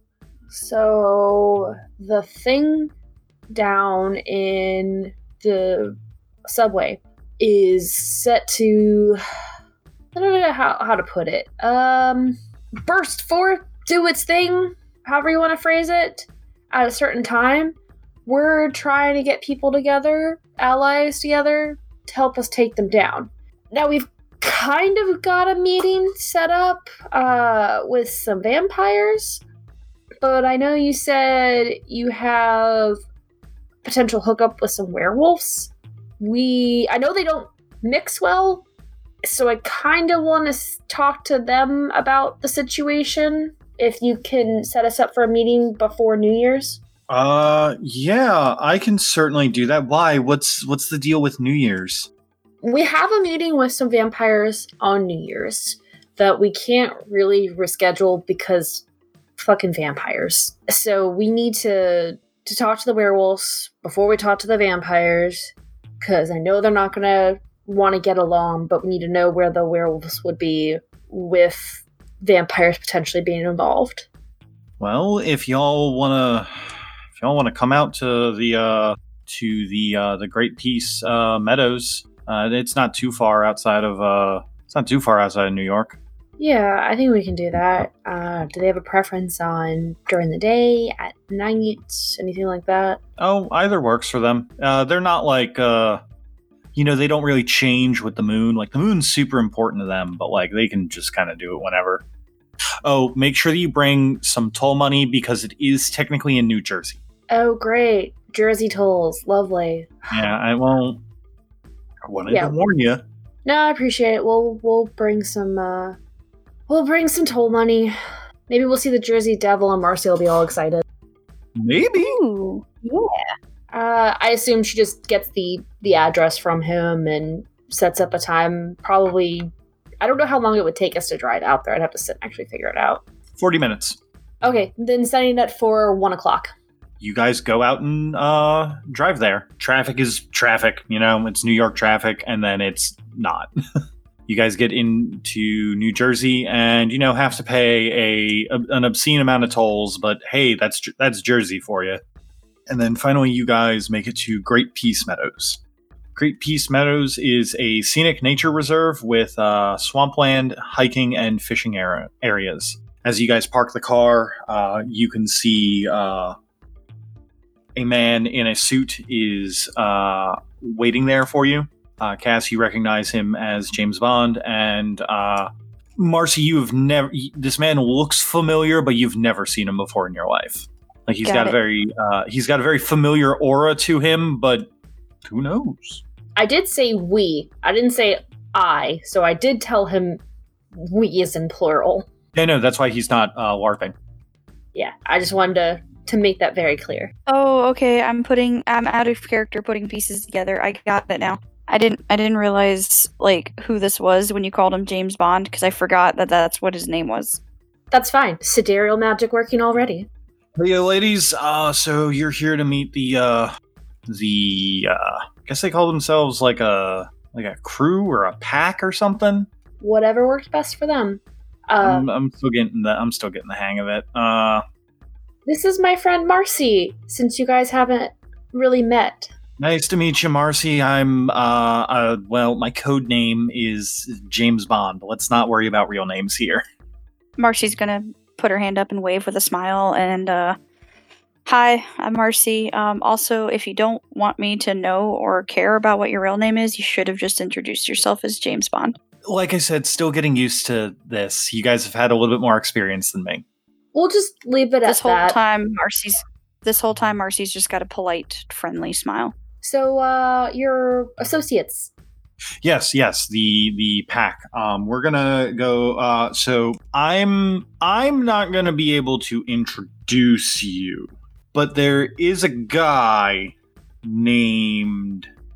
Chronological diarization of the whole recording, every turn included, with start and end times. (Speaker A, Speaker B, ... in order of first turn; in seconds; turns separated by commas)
Speaker A: 0.5-2.9, Speaker A: 3.5-9.2, Speaker A: 10.1-29.4, Speaker A: 30.2-33.0, Speaker A: 33.8-38.6, Speaker A: 39.2-46.8, Speaker B: 47.1-52.1, Speaker A: 52.6-58.8, Speaker A: 59.4-74.1, Speaker B: 74.8-86.0, Speaker A: 86.4-93.0, Speaker B: 93.2-96.0, Speaker B: 96.7-102.0, Speaker B: 102.8-107.0, Speaker A: 107.3-110.3, Speaker B: 110.1-111.0, Speaker B: 112.0-113.0, Speaker A: 112.3-112.5, Speaker A: 113.4-116.0, Speaker A: 116.7-118.0, Speaker A: 118.5-120.8, Speaker B: 121.5-122.2, Speaker C: 122.0-123.3, Speaker A: 123.7-129.5, Speaker A: 130.0-133.0, Speaker B: 133.3-134.0, Speaker A: 134.4-136.5, Speaker B: 137.0-143.5, Speaker B: 144.3-152.0, Speaker B: 152.7-155.6, Speaker B: 156.2-166.3, Speaker B: 167.8-184.7, Speaker C: 181.2-181.6, Speaker B: 185.2-186.0, Speaker A: 186.3-190.2, Speaker A: 190.7-192.1, Speaker B: 192.3-193.9, Speaker A: 194.7-197.1, Speaker C: 197.3-207.4, Speaker A: 207.9-210.1, Speaker B: 210.6-213.5, Speaker B: 214.1-219.5, Speaker A: 219.8-222.1, Speaker B: 221.8-224.6, Speaker A: 225.4-229.3, Speaker B: 229.6-236.6, Speaker C: 237.4-240.6, Speaker C: 241.4-248.9, Speaker B: 249.2-253.4, Speaker A: 253.9-255.4, Speaker C: 254.8-259.3, Speaker A: 259.6-261.9, Speaker B: 262.6-275.3